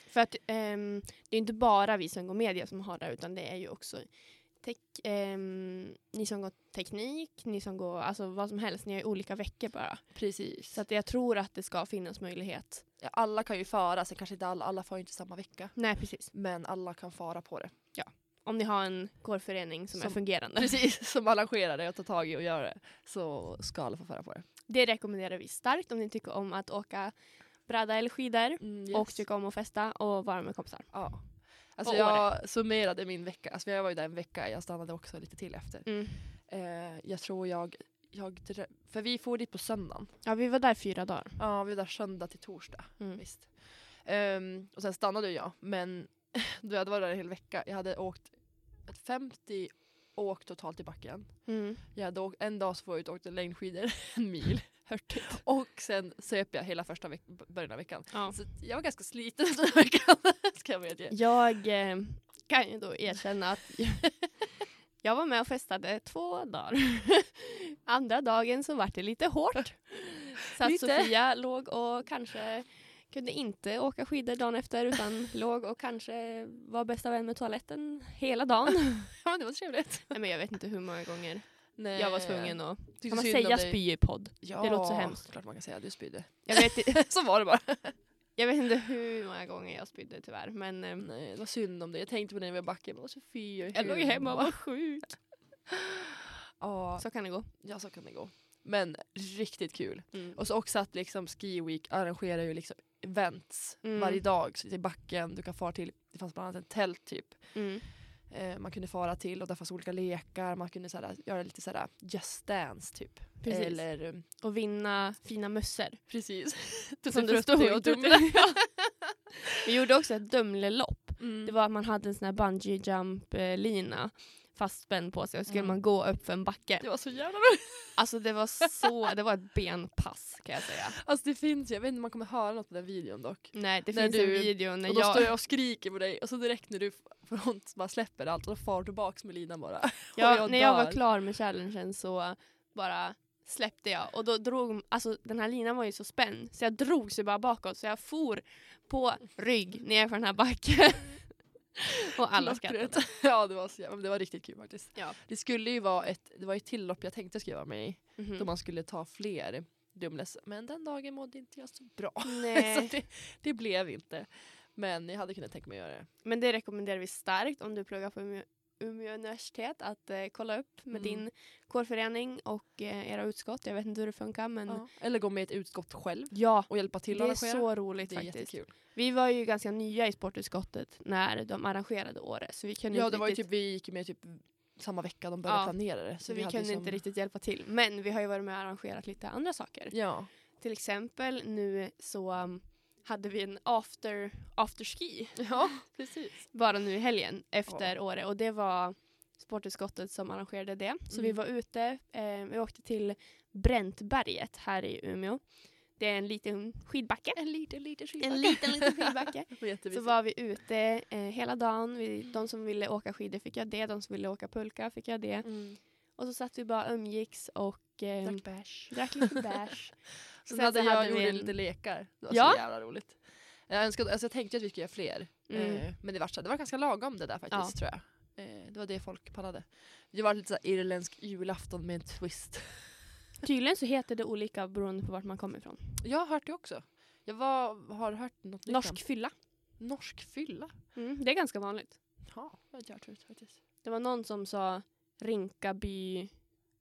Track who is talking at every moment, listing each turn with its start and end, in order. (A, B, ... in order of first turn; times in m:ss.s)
0:00.1-0:12.8 A
0:10.1-0:10.8 B
0:13.0-0:17.7 B
0:15.7-0:16.3 A
0:17.9-0:20.8 A
0:19.9-0:24.4 B
0:24.7-0:32.3 A
0:28.6-0:29.2 B
0:30.9-0:40.2 B
0:35.8-0:36.3 A
0:40.2-0:41.4 A
0:41.4-1:01.2 B
0:43.0-0:43.2 A
0:51.4-0:51.8 A
0:58.1-0:58.4 A
1:01.1-1:19.2 A
1:10.6-1:11.1 B
1:19.2-1:20.2 B
1:20.1-1:25.5 A
1:21.8-1:28.0 B
1:26.4-1:27.1 A
1:28.3-1:31.1 A
1:31.0-1:35.1 B
1:33.7-1:35.3 A
1:36.6-1:54.2 B
1:37.0-1:37.5 A
1:40.1-1:40.4 A
1:43.8-1:44.2 A
1:47.5-1:47.9 A
1:53.4-1:56.5 A
1:56.1-1:58.9 B
1:57.1-1:59.0 A
1:59.6-2:07.0 A
2:01.2-2:01.5 B
2:05.5-2:05.9 B
2:06.8-2:08.1 B
2:07.9-2:11.0 A
2:10.9-2:21.0 B
2:13.5-2:15.3 A
2:20.1-2:33.0 A
2:32.3-2:46.1 B
2:38.2-2:38.5 A
2:42.2-2:42.9 A
2:46.2-2:54.9 A
2:50.9-2:51.3 B
2:54.7-2:58.7 B
2:56.3-3:03.5 A
3:02.9-3:07.0 B
3:05.4-3:42.6 A
3:09.9-3:10.3 B
3:15.4-3:16.5 B
3:17.6-3:17.9 B
3:21.1-3:21.4 B
3:27.3-3:29.0 B
3:29.5-3:30.2 B
3:35.4-3:35.8 B
3:38.2-3:39.1 B
3:40.4-3:53.1 B
3:45.5-3:45.9 A
3:47.5-3:47.8 A
3:53.4-3:56.0 A
3:56.0-4:00.7 B
3:58.6-3:59.3 A
4:00.9-4:02.0 A
4:02.2-4:03.6 B
4:03.8-4:06.5 A